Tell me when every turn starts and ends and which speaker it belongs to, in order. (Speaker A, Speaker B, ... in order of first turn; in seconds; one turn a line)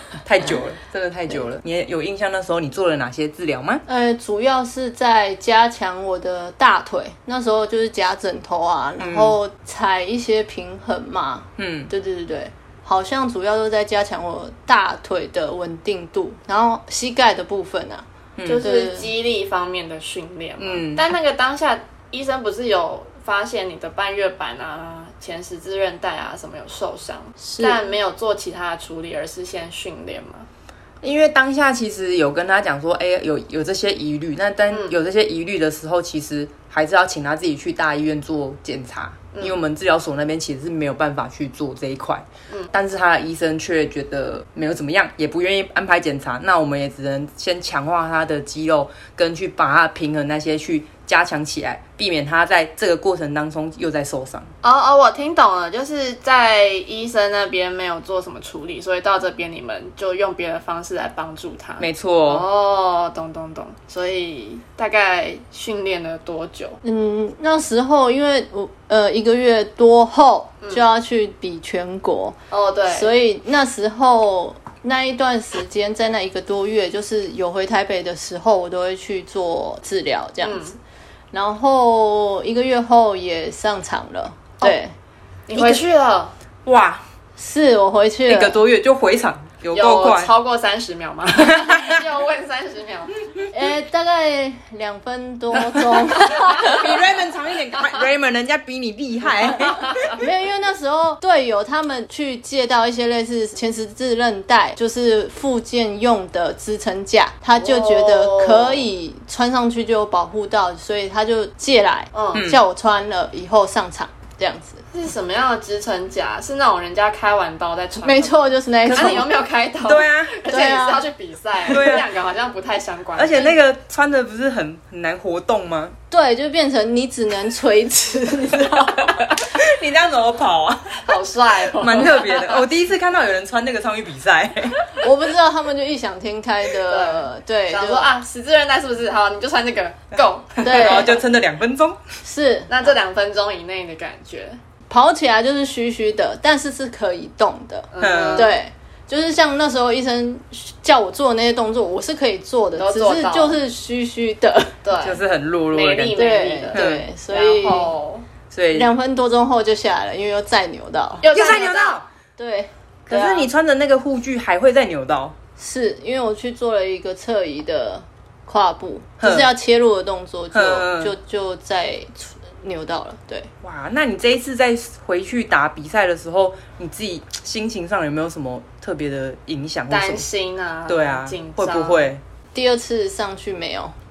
Speaker A: 0.2-3.8
Speaker B: 3.9-18.0
Speaker A: 9.0-9.3
Speaker A: 11.6-11.9
Speaker C: 18.4-30.5
Speaker B: 18.6-19.1
Speaker A: 20.6-21.1
Speaker B: 27.4-27.8
Speaker A: 31.0-54.5
Speaker C: 34.7-35.0
Speaker C: 54.6-66.8
Speaker A: 61.8-62.5
Speaker B: 66.8-80.8
Speaker C: 72.5-73.2
Speaker C: 80.4-80.8
Speaker B: 81.3-84.9
Speaker C: 85.5-86.3
Speaker A: 85.5-85.8
Speaker A: 86.7-87.0
Speaker B: 87.4-88.6
Speaker A: 88.3-90.3
Speaker C: 89.7-93.2
Speaker A: 91.4-92.0
Speaker B: 93.5-96.9
Speaker A: 96.6-99.9
Speaker B: 99.5-114.8
Speaker C: 107.5-108.9
Speaker C: 112.1-112.4
Speaker A: 112.3-112.6
Speaker C: 114.9-123.6
Speaker B: 118.0-119.3
Speaker A: 119.8-120.4
Speaker B: 120.5-121.0
Speaker A: 121.7-122.1
Speaker A: 123.2-125.9
Speaker B: 126.1-129.3
Speaker A: 129.1-131.0
Speaker C: 131.0-132.6
Speaker A: 131.8-134.8
Speaker B: 135.0-138.1
Speaker C: 136.9-141.2
Speaker B: 140.6-141.1
Speaker A: 140.7-142.0
Speaker B: 142.2-142.7
Speaker C: 142.7-144.6
Speaker B: 144.9-154.8
Speaker C: 147.9-148.6
Speaker A: 148.0-148.5
Speaker C: 152.8-153.6
Speaker C: 154.8-158.2
Speaker A: 155.0-156.2
Speaker B: 156.1-157.9
Speaker A: 156.7-157.1
Speaker A: 158.5-158.9
Speaker B: 158.7-161.6
Speaker C: 161.2-162.0
Speaker A: 161.3-162.0
Speaker B: 162.4-163.5
Speaker A: 163.1-165.3
Speaker B: 165.6-173.5
Speaker A: 169.2-169.5
Speaker A: 170.5-171.1
Speaker A: 173.6-180.2
Speaker C: 179.9-182.1
Speaker A: 180.9-182.2
Speaker B: 182.5-183.9